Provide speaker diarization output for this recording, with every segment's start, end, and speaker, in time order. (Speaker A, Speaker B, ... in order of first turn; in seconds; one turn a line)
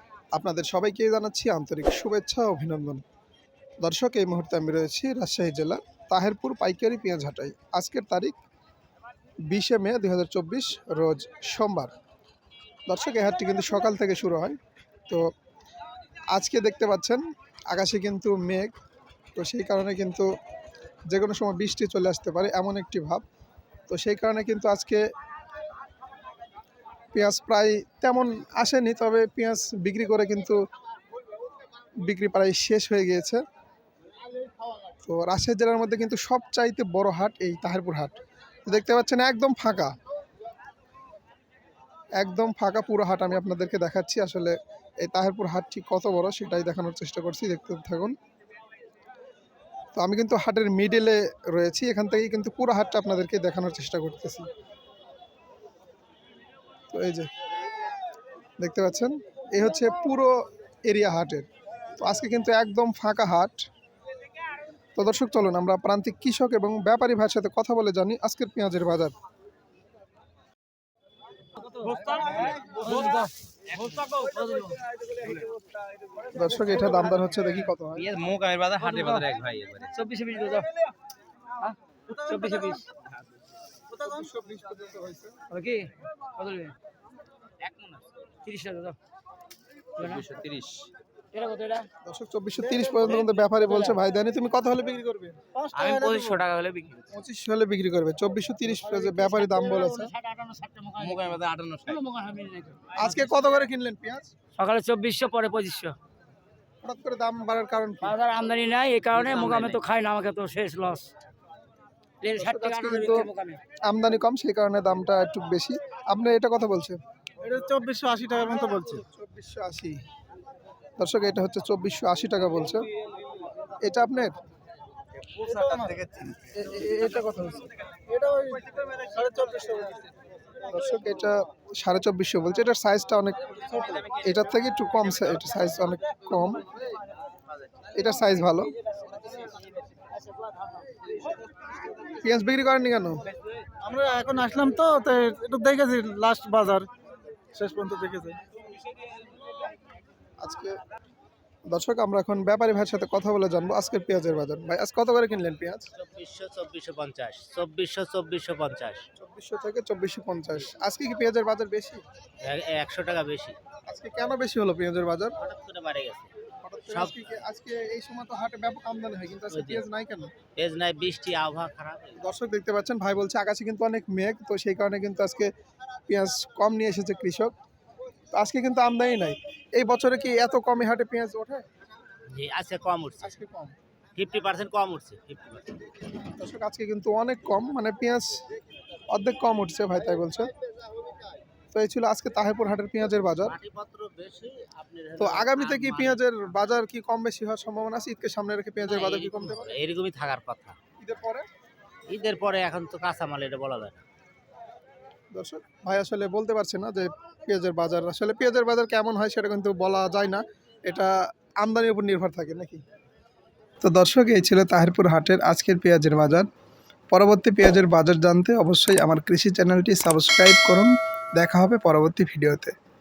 Speaker A: 0.3-3.0
Speaker A: 3.8-8.4
Speaker A: 9.5-11.9
Speaker A: 12.9-14.6
Speaker A: 16.3-18.7
Speaker A: 19.4-20.3
Speaker A: 21.1-23.2
Speaker A: 23.9-25.0
Speaker A: 27.1-30.6
Speaker A: 32.0-33.4
Speaker A: 35.0-39.9
Speaker A: 42.2-48.1
Speaker A: 49.9-54.5
Speaker A: 56.9-57.3
Speaker A: 58.6-61.5
Speaker A: 62.0-63.7
Speaker A: 65.0-69.1
Speaker B: 71.8-73.3
Speaker C: 72.0-72.5
Speaker B: 74.0-74.8
Speaker A: 76.3-78.1
Speaker D: 77.9-79.9
Speaker B: 78.8-79.3
Speaker B: 79.9-80.7
Speaker B: 81.6-82.8
Speaker C: 82.1-82.8
Speaker C: 83.9-84.2
Speaker A: 84.0-85.4
Speaker B: 85.5-86.7
Speaker D: 87.6-88.0
Speaker B: 88.4-89.0
Speaker B: 90.0-90.2
Speaker D: 90.0-90.9
Speaker B: 91.3-91.9
Speaker A: 92.0-95.4
Speaker C: 92.8-93.2
Speaker C: 95.5-96.4
Speaker D: 95.7-97.0
Speaker A: 97.1-100.1
Speaker B: 99.2-103.3
Speaker D: 101.0-102.0
Speaker A: 102.9-104.3
Speaker B: 104.6-105.9
Speaker A: 106.8-108.2
Speaker B: 108.0-111.1
Speaker E: 109.2-109.5
Speaker B: 112.2-113.6
Speaker A: 112.3-113.3
Speaker A: 113.9-117.0
Speaker C: 117.4-119.0
Speaker A: 118.6-120.0
Speaker A: 121.0-122.8
Speaker A: 123.8-124.3
Speaker C: 125.3-126.2
Speaker A: 126.3-127.7
Speaker C: 128.1-130.1
Speaker A: 130.7-136.7
Speaker A: 137.9-138.7
Speaker A: 142.2-143.2
Speaker C: 143.8-146.9
Speaker C: 147.5-148.4
Speaker A: 150.4-150.7
Speaker A: 151.7-155.9
Speaker E: 155.9-159.0
Speaker A: 159.2-162.0
Speaker E: 162.4-163.6
Speaker A: 163.9-165.3
Speaker E: 165.4-166.3
Speaker A: 166.6-170.3
Speaker E: 166.9-167.3
Speaker E: 169.5-169.8
Speaker E: 170.6-172.2
Speaker A: 172.2-175.5
Speaker A: 176.1-177.5
Speaker A: 178.3-181.6
Speaker E: 182.3-183.3
Speaker A: 183.2-183.7
Speaker E: 184.2-185.8
Speaker A: 186.4-188.4
Speaker A: 189.1-190.5
Speaker A: 191.7-193.6
Speaker E: 193.2-196.2
Speaker A: 195.2-199.8
Speaker E: 198.8-200.7
Speaker A: 201.0-201.4
Speaker E: 202.1-204.0
Speaker A: 205.3-212.8
Speaker A: 213.8-216.5
Speaker A: 217.1-222.7